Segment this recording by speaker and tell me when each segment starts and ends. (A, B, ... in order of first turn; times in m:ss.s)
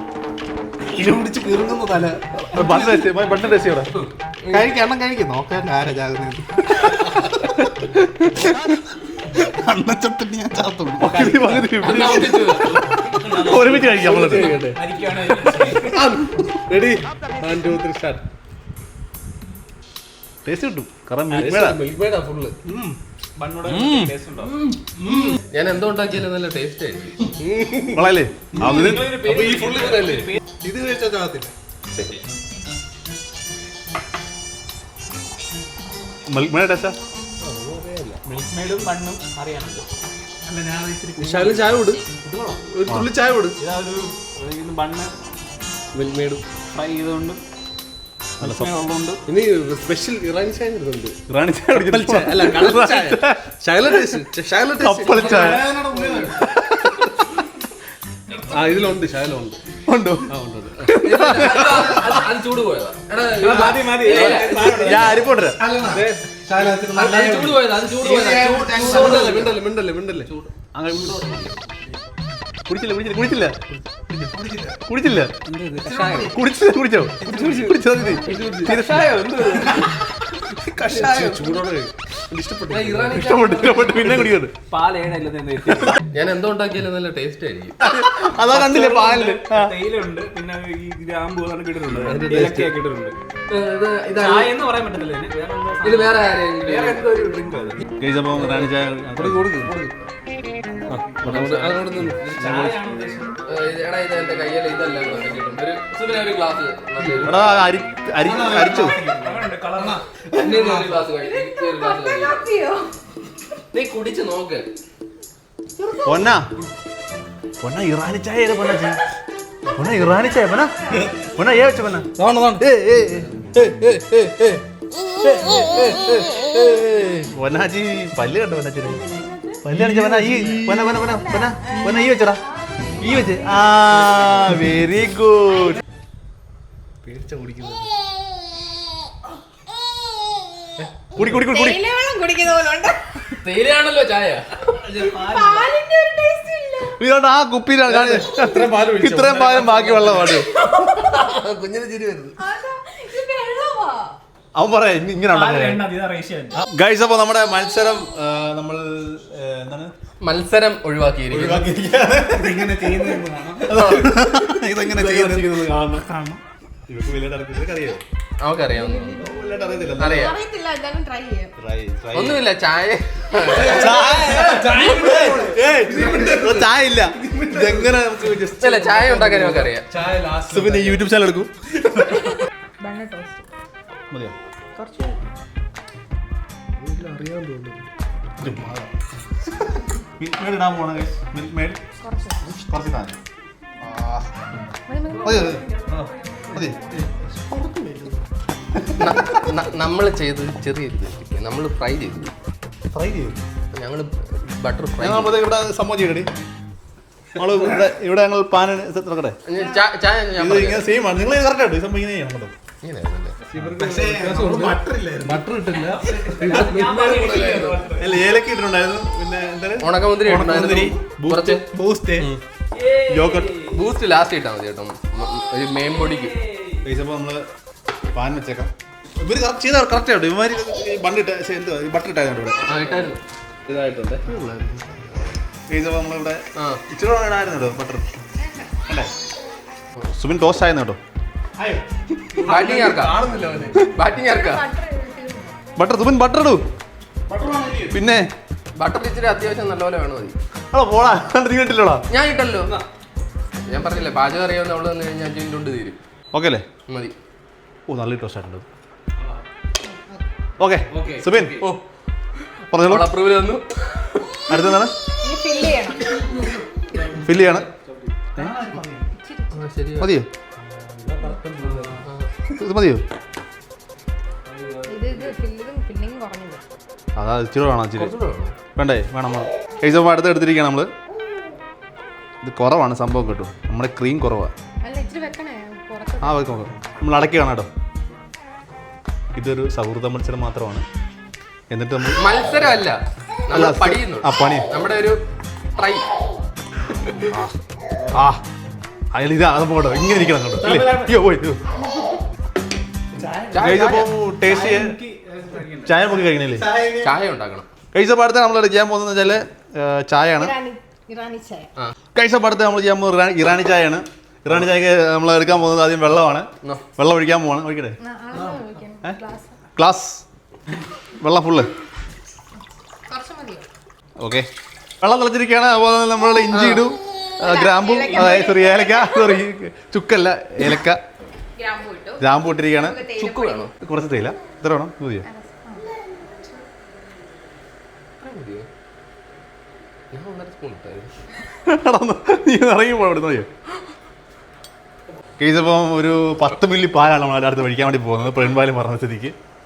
0:00.9-0:03.1 A
0:02.5-0:03.9 B
0:03.9-0:04.7 C
0:04.5-0:06.5 A
0:06.7-0:08.8 B
0:09.4-0:11.6 A
0:11.0-0:14.6 B
0:11.1-0:11.5 D
0:11.8-0:13.1 C
0:13.2-0:16.1 D
0:13.8-0:14.8 E
0:15.8-0:18.2 E
0:20.4-0:21.8 B
0:21.3-0:22.6 E
0:22.6-0:23.0 A
0:23.4-0:24.6 D
0:23.7-0:24.1 B
0:24.4-0:27.3 C
0:25.1-0:25.4 A
0:27.4-0:28.0 E
0:27.9-0:29.1 B
0:28.6-0:30.4 D
0:29.2-0:30.3 E
0:30.6-0:31.5 A
0:36.3-0:37.0 B
0:37.4-0:38.2 E
0:38.2-0:39.8 D
0:40.4-0:41.7 A
0:41.2-0:42.0 E
0:42.2-0:42.6 D
0:42.6-0:43.6 E
0:43.6-0:45.2 D
0:45.9-0:46.4 E
0:46.7-0:47.4 D
0:48.4-0:48.7 B
0:48.4-0:49.2 D
0:49.3-0:51.2 E
0:51.3-0:53.4 B
0:51.7-0:55.6 E
0:54.8-0:55.8 B
0:55.1-0:56.5 A
0:56.4-0:57.2 B
0:58.5-0:59.6 E
0:59.9-1:00.3 B
1:00.3-1:01.0 E
1:00.8-1:02.1 B
1:00.9-1:05.2 C
1:03.3-1:05.3 D
1:04.1-1:05.6 B
1:05.6-1:09.5 A
1:05.9-1:06.2 D
1:06.9-1:09.6 C
1:08.1-1:10.3 E
1:10.2-1:11.5 C
1:10.7-1:11.5 B
1:12.7-1:13.6 B
1:14.1-1:14.8 A
1:14.9-1:15.3 B
1:15.4-1:16.3 D
1:15.9-1:16.4 A
1:16.3-1:19.4 B
1:17.2-1:18.8 E
1:17.3-1:17.7 D
1:17.3-1:17.6 A
1:18.3-1:20.0 D
1:20.7-1:21.5 B
1:20.8-1:23.3 E
1:22.7-1:24.3 C
1:23.1-1:24.5 B
1:24.7-1:26.0 D
1:26.1-1:27.8 C
1:27.8-1:29.8 B
1:28.4-1:33.1 D
1:31.9-1:32.8 E
1:33.5-1:34.5 C
1:34.1-1:37.8 D
1:35.8-1:37.0 C
1:38.0-1:39.5 B
1:39.2-1:40.0 E
1:40.9-1:42.8 E
1:41.2-1:43.4 D
1:41.3-1:41.7 B
1:43.4-1:47.6 C
1:47.2-1:49.0 B
1:48.2-1:51.0 A
1:49.1-1:50.0 D
1:50.4-1:52.4 C
1:51.1-1:52.9 F
1:53.7-1:54.7 C
1:56.0-1:56.5 B
1:57.6-1:59.0 B
1:59.7-2:03.8 B
2:02.1-2:02.7 A
2:07.3-2:09.0 B
2:08.8-2:09.6 F
2:09.6-2:12.4 B
2:09.8-2:10.6 A
2:10.8-2:14.3 F
2:13.0-2:15.8 B
2:17.0-2:17.9 E
2:20.8-2:21.3 E
2:21.2-2:21.8 B
2:21.3-2:23.0 F
2:23.4-2:24.5 C
2:24.8-2:25.7 D
2:24.9-2:27.0 F
2:27.0-2:30.5 B
2:27.9-2:32.4 E
2:30.3-2:31.2 F
2:32.4-2:34.1 F
2:34.5-2:35.9 B
2:35.3-2:36.6 D
2:36.6-2:39.9 B
2:40.2-2:41.7 C
2:41.3-2:46.0 B
2:42.3-2:43.8 A
2:43.7-2:44.6 C
2:45.2-2:46.4 A
2:46.9-2:48.0 B
2:48.4-2:49.2 C
2:48.7-2:51.5 F
2:49.1-2:50.4 B
2:50.0-2:50.4 C
2:51.6-2:52.4 B
2:52.1-2:54.2 C
2:53.6-2:59.2 B
2:53.7-2:55.6 A
2:54.4-2:56.7 E
2:57.2-2:57.8 E
2:58.6-2:59.9 C
2:58.9-3:01.1 E
3:00.5-3:01.5 B
3:02.0-3:03.4 F
3:04.8-3:05.2 F
3:06.8-3:07.9 E
3:08.4-3:08.8 B
3:08.4-3:08.8 A
3:10.2-3:11.8 B
3:12.0-3:12.4 F
3:12.4-3:13.2 B
3:14.8-3:16.8 F
3:15.2-3:16.0 B
3:16.5-3:16.8 B
3:17.1-3:18.2 A
3:19.0-3:22.3 C
3:22.9-3:23.4 B
3:23.7-3:25.4 C
3:25.0-3:26.3 B
3:27.4-3:29.4 B
3:29.5-3:30.9 C
3:30.4-3:32.5 B
3:32.8-3:33.4 C
3:33.5-3:37.7 E
3:33.8-3:35.7 A
3:36.1-3:38.2 D
3:36.5-3:37.8 C
3:38.0-3:42.3 B
3:39.8-3:41.6 C
3:42.7-3:43.8 D
3:43.1-3:43.5 B
3:43.7-3:46.3 C
3:45.8-3:46.8 D
3:46.8-3:47.4 B
3:48.1-3:52.6 B
3:52.6-3:53.2 C
3:53.6-3:55.0 E
3:55.7-3:58.1 B
3:56.5-3:56.8 C
4:00.2-4:01.0 B
4:01.6-4:01.8 A
4:02.4-4:03.8 E
4:02.4-4:03.2 C
4:03.9-4:04.6 C
4:04.1-4:05.6 F
4:05.8-4:06.6 B
4:07.3-4:08.0 A
4:07.9-4:08.3 B
4:08.8-4:10.4 C
4:10.7-4:12.0 B
4:12.1-4:12.8 C
4:13.7-4:16.0 C
4:16.3-4:16.6 B
4:16.9-4:17.1 C
4:17.9-4:18.6 B
4:19.9-4:20.2 F
4:20.6-4:21.6 B
4:20.9-4:21.2 E
4:20.9-4:21.5 D
4:22.7-4:23.1 B
4:22.8-4:24.2 C
4:24.5-4:24.9 B
4:25.2-4:26.6 F
4:27.2-4:27.6 B
4:28.4-4:29.1 A
4:29.1-4:29.6 F
4:29.5-4:30.1 C
4:30.0-4:30.3 B
4:30.6-4:32.0 E
4:31.6-4:32.0 A
4:32.5-4:33.0 B
4:34.4-4:35.4 E
4:34.9-4:36.6 F
4:37.2-4:38.2 B
4:37.9-4:38.5 C
4:38.8-4:40.9 B
4:42.4-4:44.5 B
4:44.8-4:46.7 F
4:46.2-4:47.7 B
4:49.3-4:50.8 B
4:51.7-4:52.6 B
4:52.1-4:55.2 C
4:53.5-4:54.7 B
4:55.8-4:56.1 C
4:58.1-4:58.4 B
4:59.1-5:01.6 B
5:00.6-5:01.2 A
5:01.8-5:02.2 F
5:03.2-5:07.1 A
5:03.5-5:04.1 C
5:03.6-5:05.0 B
5:04.4-5:04.8 D
5:05.4-5:05.8 D
5:05.8-5:06.6 B
5:07.0-5:07.7 C
5:07.9-5:10.5 B
5:10.3-5:11.7 F
5:12.1-5:18.0 B
5:18.0-5:19.6 F
5:19.8-5:20.2 B
5:21.2-5:21.7 B
5:23.1-5:23.6 F
5:24.2-5:24.5 B
5:25.0-5:31.0 B
5:26.5-5:26.8 C
5:27.4-5:29.4 F
5:31.6-5:33.7 F
5:32.2-5:33.0 B
5:33.1-5:33.7 C
5:33.8-5:35.3 B
5:35.2-5:36.6 F
5:38.2-5:38.7 C
5:40.1-5:41.1 C
5:41.6-5:43.5 B
5:45.4-5:49.3 B